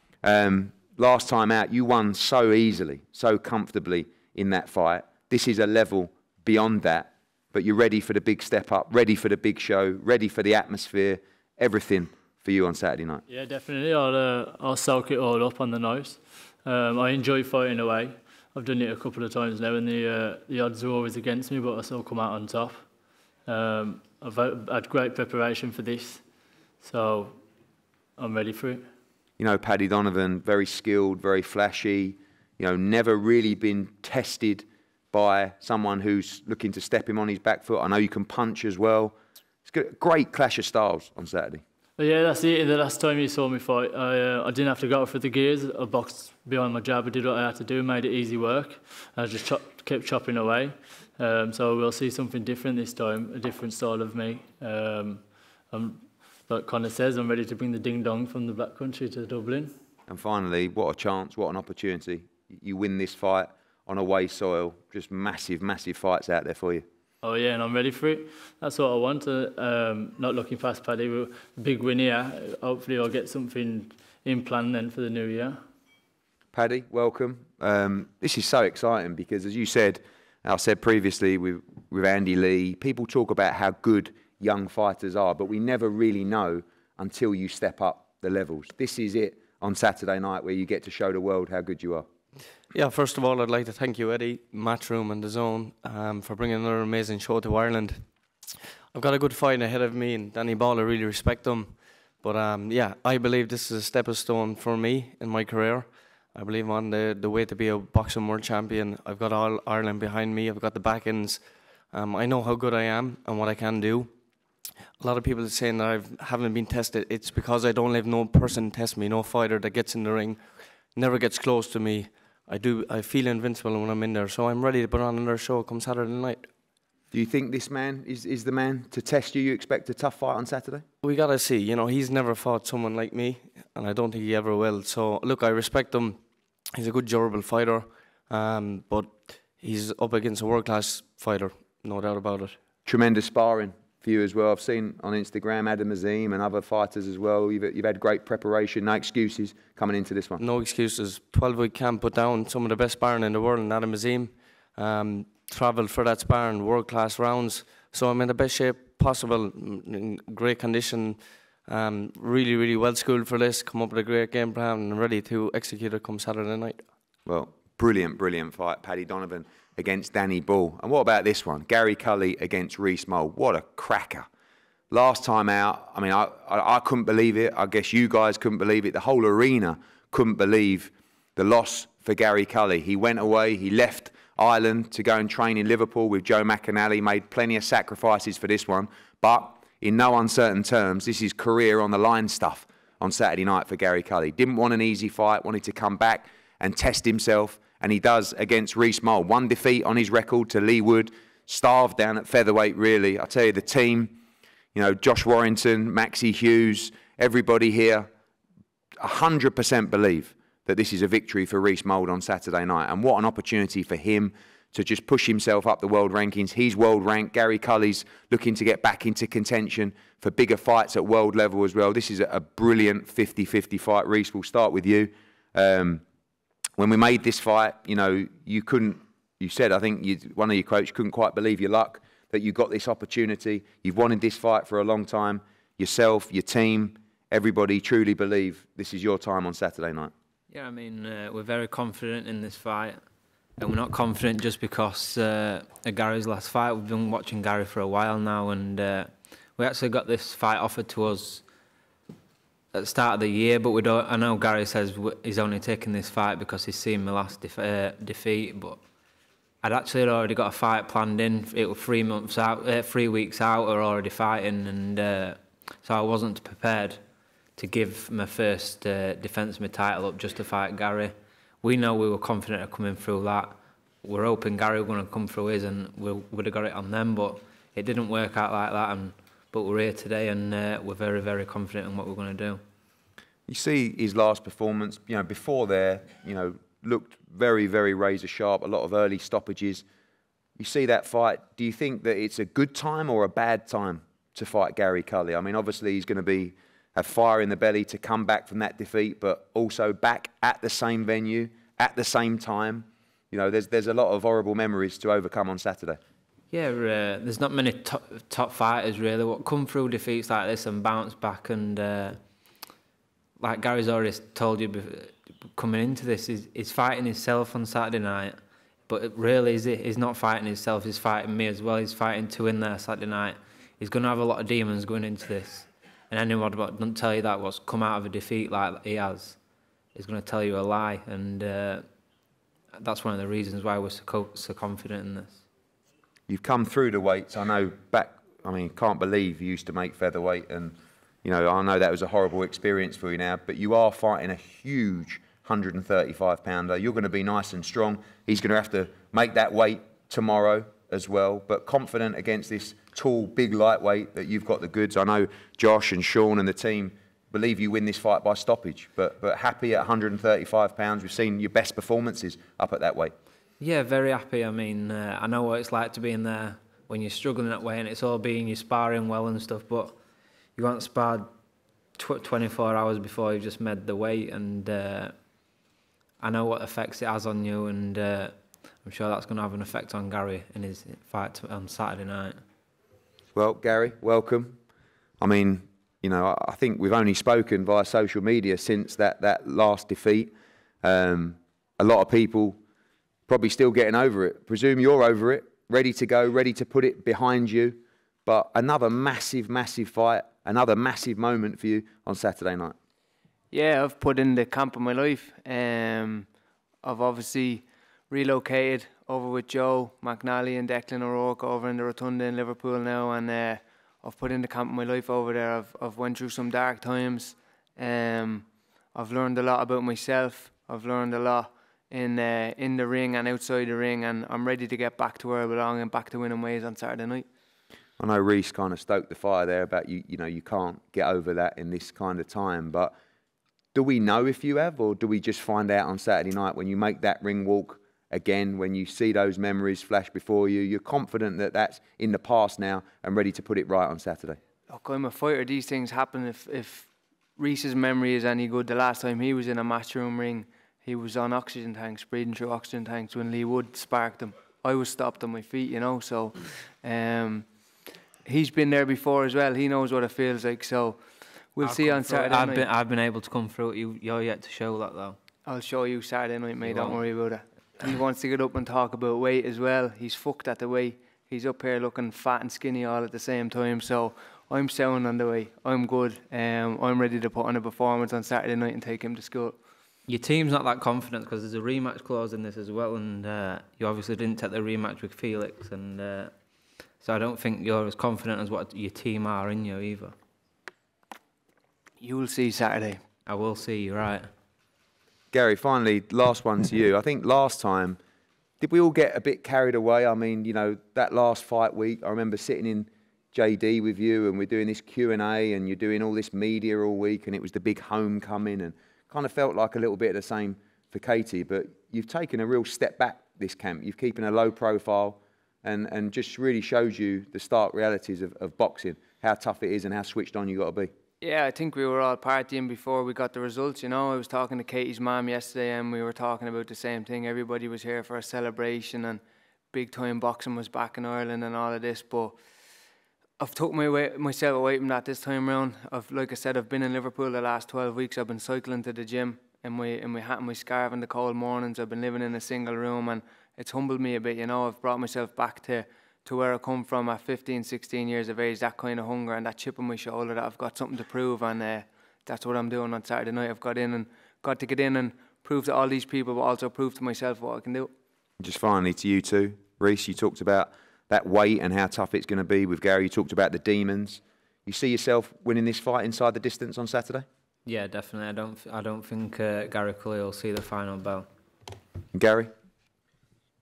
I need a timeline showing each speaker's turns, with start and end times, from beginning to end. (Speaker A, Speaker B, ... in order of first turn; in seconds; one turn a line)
Speaker A: 0.2-13.2
Speaker B: 13.3-22.9
Speaker B: 23.5-26.2
Speaker B: 26.8-27.4
Speaker B: 28.2-28.9
Speaker A: 29.4-39.1
Speaker A: 39.7-41.6
Speaker B: 42.0-59.7
Speaker A: 60.1-66.8
Speaker B: 67.2-75.6
Speaker A: 76.5-92.1
Speaker C: 92.7-98.1
Speaker C: 98.9-114.2
Speaker C: 115.0-126.5
Speaker A: 127.1-130.8
Speaker C: 131.0-136.2
Speaker C: 136.8-142.6
Speaker A: 142.8-150.4
Speaker C: 150.4-166.9
Speaker A: 167.3-174.3
Speaker A: 174.9-204.2
Speaker A: 204.7-208.1
Speaker A: 209.0-226.0
Speaker A: 226.8-240.1
Speaker D: 240.5-243.0
Speaker D: 243.6-251.4
Speaker D: 252.7-258.8
Speaker D: 259.6-267.0
Speaker D: 267.6-282.6
Speaker A: 283.5-289.8
Speaker A: 290.6-306.0
Speaker D: 306.5-312.2
Speaker D: 313.4-318.4
Speaker D: 318.9-329.4
Speaker D: 329.9-331.9
Speaker D: 332.7-335.4
Speaker A: 336.3-363.1
Speaker D: 363.6-370.0
Speaker D: 370.6-371.3
Speaker D: 372.0-375.1
Speaker D: 376.2-382.4
Speaker A: 383.4-384.6
Speaker A: 385.2-390.3
Speaker A: 390.8-392.6
Speaker A: 393.3-402.8
Speaker E: 403.5-406.3
Speaker E: 406.8-427.3
Speaker A: 428.0-432.9
Speaker A: 433.7-444.4
Speaker E: 444.7-457.5
Speaker E: 458.2-462.7
Speaker D: 461.6-465.2
Speaker E: 465.5-479.6
Speaker D: 466.6-467.0
Speaker D: 480.1-486.3
Speaker D: 487.0-490.1
Speaker E: 492.0-493.0
Speaker D: 493.3-494.3
Speaker A: 495.3-498.0
Speaker A: 498.6-520.9
Speaker E: 521.2-532.4
Speaker E: 533.4-557.9
Speaker A: 558.4-567.2
Speaker D: 567.7-571.3
Speaker A: 572.1-572.5